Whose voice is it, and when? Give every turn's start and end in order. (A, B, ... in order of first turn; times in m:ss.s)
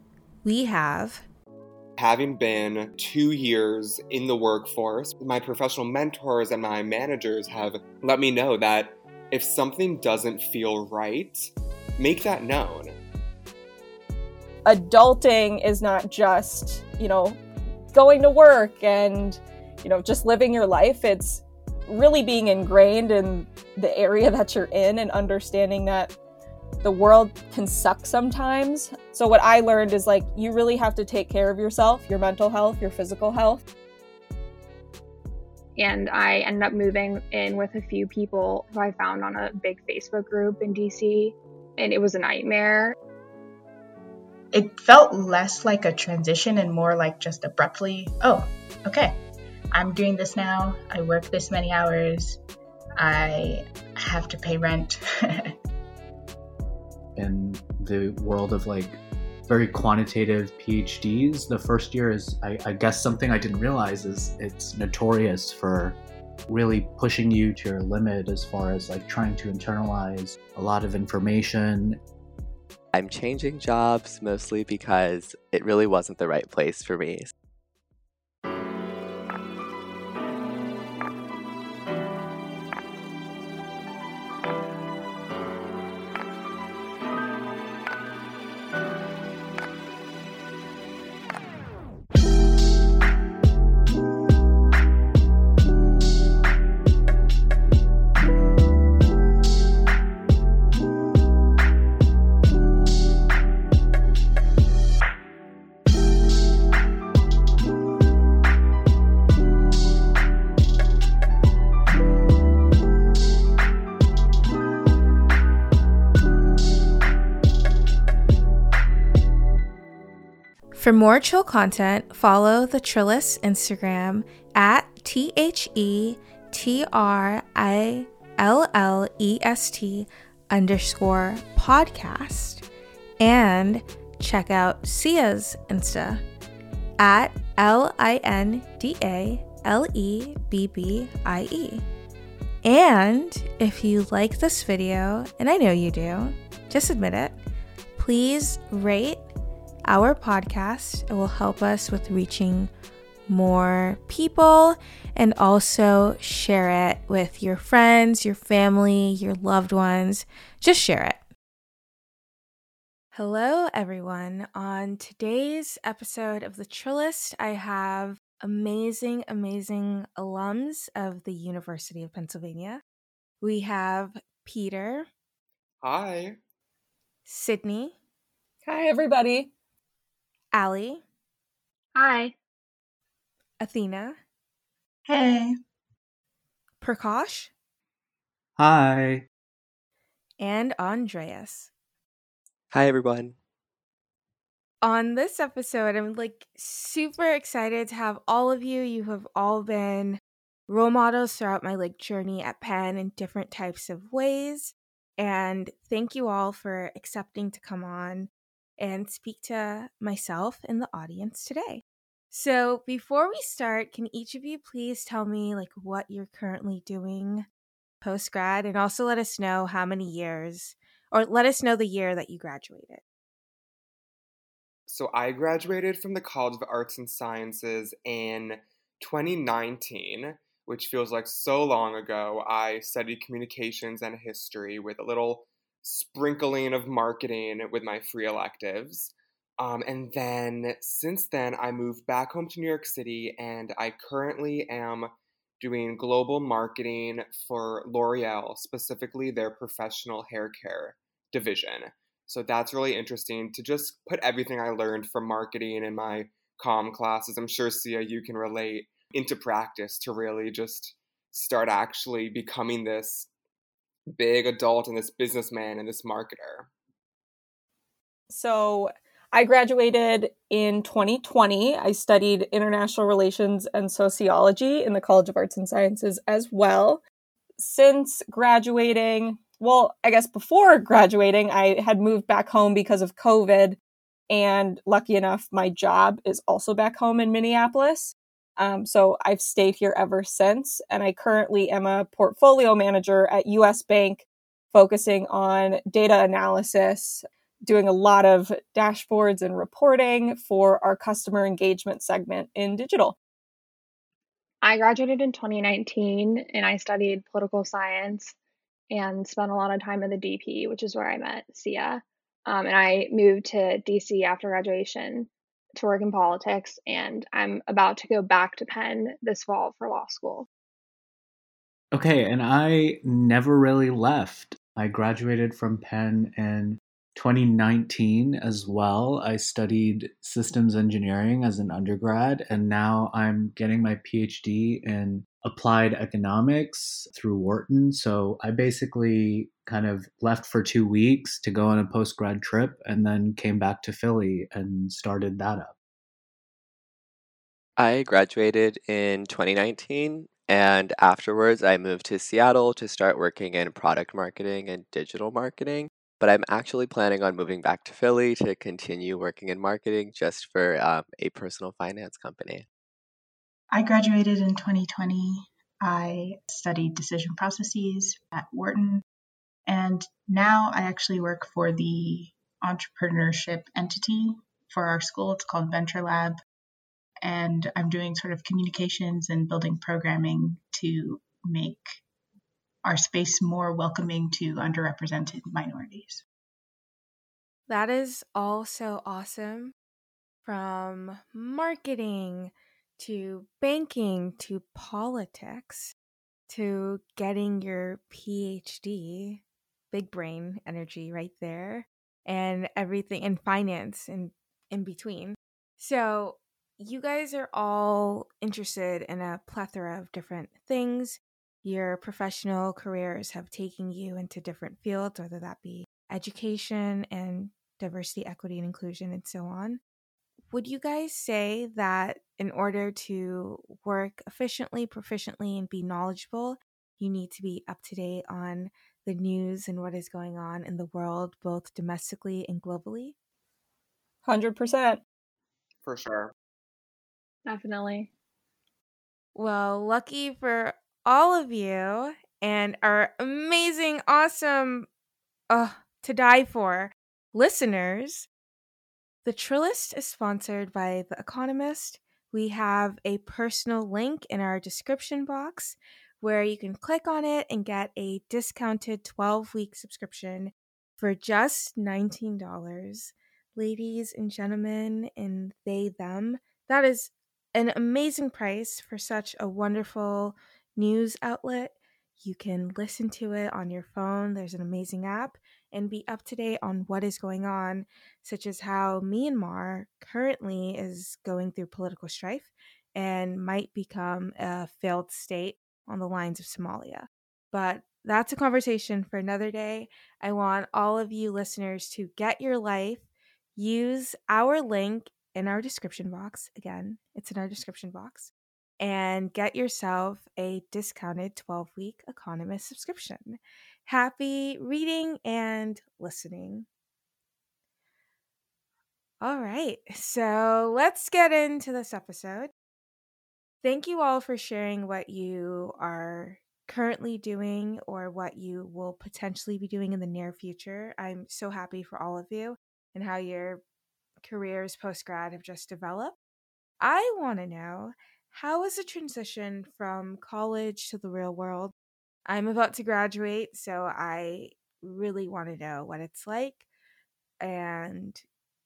0:00.4-0:01.2 A
0:02.0-0:13.0 B
0:14.6-0:17.4 C
0:17.9-0:26.1 C
0:26.8-0:33.6 C
0:35.8-0:43.0 D
0:44.5-0:49.2 E
0:49.7-0:52.4 E
0:53.0-0:55.5 E
0:57.2-1:12.0 F
1:12.9-1:17.3 G
2:00.7-2:12.6 A
2:13.2-2:16.2 A
2:17.0-2:21.8 A
2:22.6-2:27.4 A
2:28.0-2:29.2 A
2:29.9-2:32.7 A
2:33.3-2:41.2 A
2:43.1-2:52.8 A
2:53.4-2:55.1 A
2:55.8-2:56.4 B
2:57.3-2:58.0 A
2:58.6-2:59.5 C
3:00.5-3:01.0 A
3:02.0-3:02.3 D
3:03.6-3:04.2 A
3:05.1-3:05.5 E
3:06.8-3:07.5 A
3:08.6-3:09.3 F
3:10.4-3:11.7 A
3:12.7-3:13.4 G
3:14.8-3:37.5 A
3:38.0-3:43.0 A
3:44.9-4:23.3 B
4:24.1-4:26.7 B
4:28.3-4:37.0 C
4:37.6-4:43.8 C
4:44.3-5:03.2 C
5:04.6-5:08.4 D
5:08.9-5:20.5 D
5:21.9-5:45.7 F
5:47.8-6:02.7 G
6:03.7-6:09.0 E
6:09.7-6:16.4 E
6:17.2-6:22.0 E
6:22.8-6:26.2 E
6:27.7-6:29.8 A
6:30.4-6:35.9 A
6:36.5-6:59.8 A
7:00.5-7:13.2 A
7:14.2-7:15.0 C
7:15.8-7:16.3 B
7:17.5-7:18.1 D
7:19.4-7:24.9 A
7:25.5-7:28.3 A
7:29.2-8:13.0 A
8:13.6-8:26.7 A
8:29.2-8:32.5 A
8:33.6-8:43.6 A
8:44.2-8:46.2 A
8:46.8-8:51.7 A
8:52.3-8:56.6 A
8:57.4-8:58.2 A